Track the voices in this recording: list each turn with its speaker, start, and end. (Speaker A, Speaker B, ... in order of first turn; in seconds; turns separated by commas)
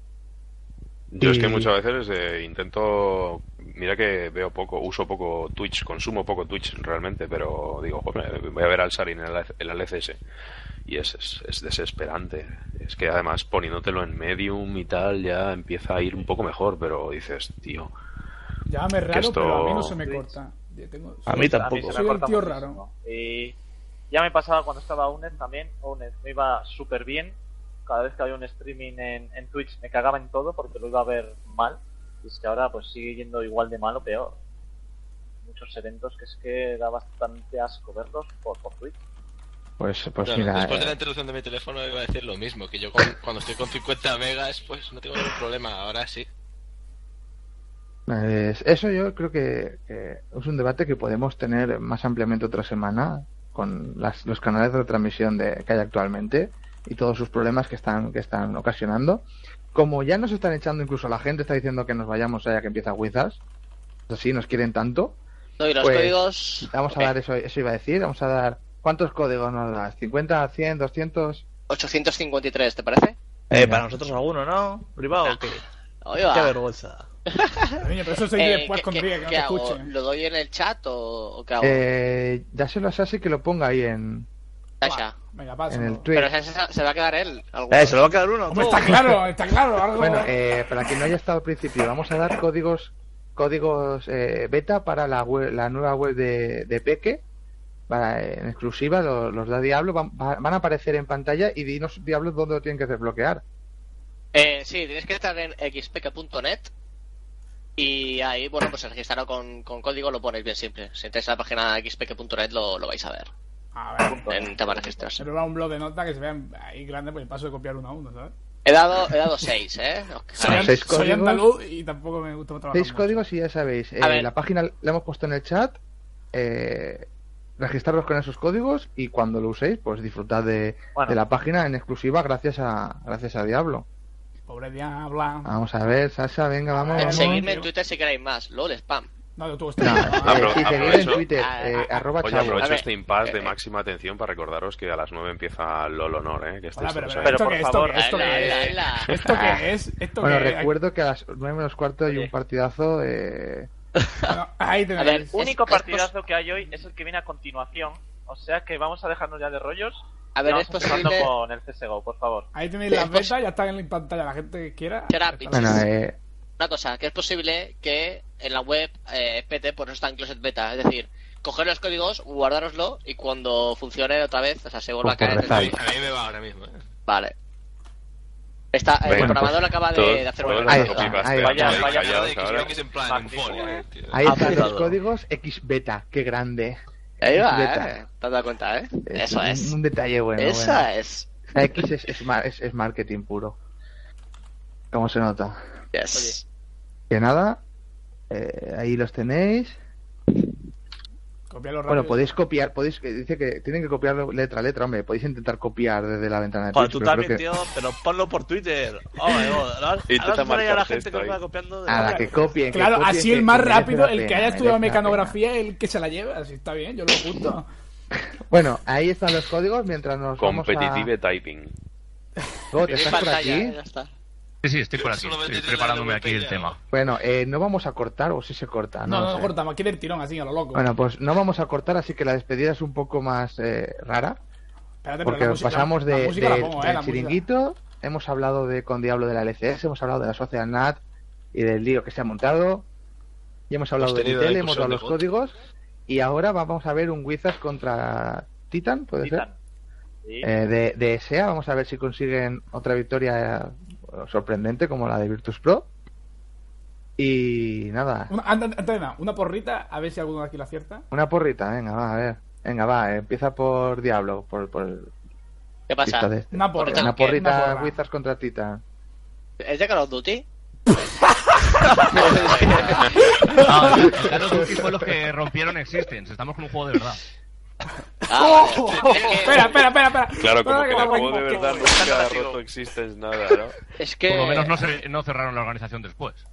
Speaker A: 1.1-10.2, Speaker B: 1.2-1.7, Speaker A: 10.8-17.9, Speaker C: 18.7-22.8, Speaker A: 19.1-20.0, Speaker D: 20.1-20.3, Speaker E: 21.3-22.0, Speaker D: 21.3-23.5, Speaker D: 24.1-34.4, Speaker D: 35.4-38.9, Speaker B: 39.8-41.0, Speaker F: 40.2-46.3, Speaker B: 48.1-63.4, Speaker B: 64.1-65.2, Speaker G: 65.6-67.1, Speaker B: 65.8-66.1, Speaker B: 66.7-71.4, Speaker G: 71.7-73.2, Speaker E: 73.5-75.6, Speaker B: 73.5-73.8, Speaker G: 76.0-76.5, Speaker E: 76.3-77.1, Speaker G: 77.3-77.7, Speaker C: 77.8-79.9, Speaker G: 78.3-81.8, Speaker B: 81.6-84.3, Speaker G: 84.8-85.1, Speaker C: 85.3-86.0, Speaker B: 85.7-86.3, Speaker G: 86.1-88.0, Speaker E: 87.7-89.2, Speaker C: 88.5-90.3, Speaker B: 90.0-97.2, Speaker B: 97.9-103.4, Speaker G: 104.3-106.7, Speaker G: 107.8-113.3, Speaker C: 113.7-114.3, Speaker D: 114.0-114.9, Speaker G: 114.1-115.2, Speaker C: 115.2-118.3, Speaker G: 118.7-120.8, Speaker C: 120.4-123.2, Speaker B: 120.5-121.4, Speaker B: 122.7-125.8, Speaker G: 124.0-124.3, Speaker B: 126.3-133.9, Speaker C: 134.5-135.5, Speaker B: 135.4-137.5, Speaker C: 136.8-137.7, Speaker G: 136.9-139.1, Speaker C: 139.4-140.8, Speaker B: 139.8-142.7, Speaker A: 140.2-141.2, Speaker G: 140.8-143.5, Speaker A: 142.2-147.4, Speaker C: 146.8-150.7, Speaker D: 147.2-148.8, Speaker G: 147.9-149.1, Speaker B: 149.2-149.7, Speaker B: 150.2-153.7, Speaker D: 152.1-152.3, Speaker C: 154.3-155.3, Speaker G: 155.0-156.1, Speaker D: 155.3-162.5, Speaker G: 160.3-161.3, Speaker C: 162.5-165.8, Speaker G: 162.9-163.3, Speaker G: 165.1-165.8, Speaker B: 165.5-166.2, Speaker G: 166.6-175.7, Speaker B: 175.0-175.8, Speaker F: 175.2-176.8, Speaker G: 177.1-177.3, Speaker G: 178.7-181.1, Speaker A: 179.1-182.8, Speaker B: 179.1-179.6, Speaker D: 180.4-183.8, Speaker B: 180.7-181.7, Speaker F: 181.3-184.6, Speaker B: 184.1-188.0, Speaker E: 184.2-184.9, Speaker G: 187.2-189.7, Speaker B: 189.1-190.9, Speaker G: 190.4-191.4, Speaker B: 191.5-193.6, Speaker B: 194.9-195.6, Speaker G: 195.9-196.4, Speaker B: 197.1-197.6, Speaker B: 198.3-199.8, Speaker C: 201.5-202.3, Speaker B: 201.9-207.4, Speaker E: 206.7-212.5, Speaker A: 210.1-211.4, Speaker B: 211.9-215.3, Speaker C: 211.9-217.7, Speaker B: 218.5-221.1, Speaker A: 220.4-221.7, Speaker B: 222.7-223.7, Speaker G: 222.9-224.1, Speaker H: 224.6-226.8, Speaker F: 224.9-226.8, Speaker B: 226.9-229.5, Speaker C: 229.0-230.9, Speaker B: 230.7-234.4, Speaker C: 235.0-237.4, Speaker B: 235.2-241.0, Speaker B: 241.5-242.9, Speaker B: 243.7-245.6, Speaker F: 244.0-245.2, Speaker B: 246.1-249.4, Speaker D: 249.2-249.5, Speaker D: 250.2-250.5, Speaker B: 250.4-255.9, Speaker B: 257.2-258.3, Speaker C: 258.3-261.0, Speaker B: 261.1-265.1, Speaker G: 265.9-267.4, Speaker B: 266.1-268.8, Speaker C: 266.5-268.0, Speaker G: 269.6-270.4, Speaker G: 271.9-273.1, Speaker F: 272.7-273.0, Speaker H: 273.6-277.2, Speaker B: 273.9-274.8, Speaker G: 278.3-279.7, Speaker C: 278.3-281.8, Speaker F: 278.7-279.7, Speaker A: 280.4-283.8, Speaker F: 280.9-282.5, Speaker G: 284.0-284.8, Speaker H: 284.3-286.4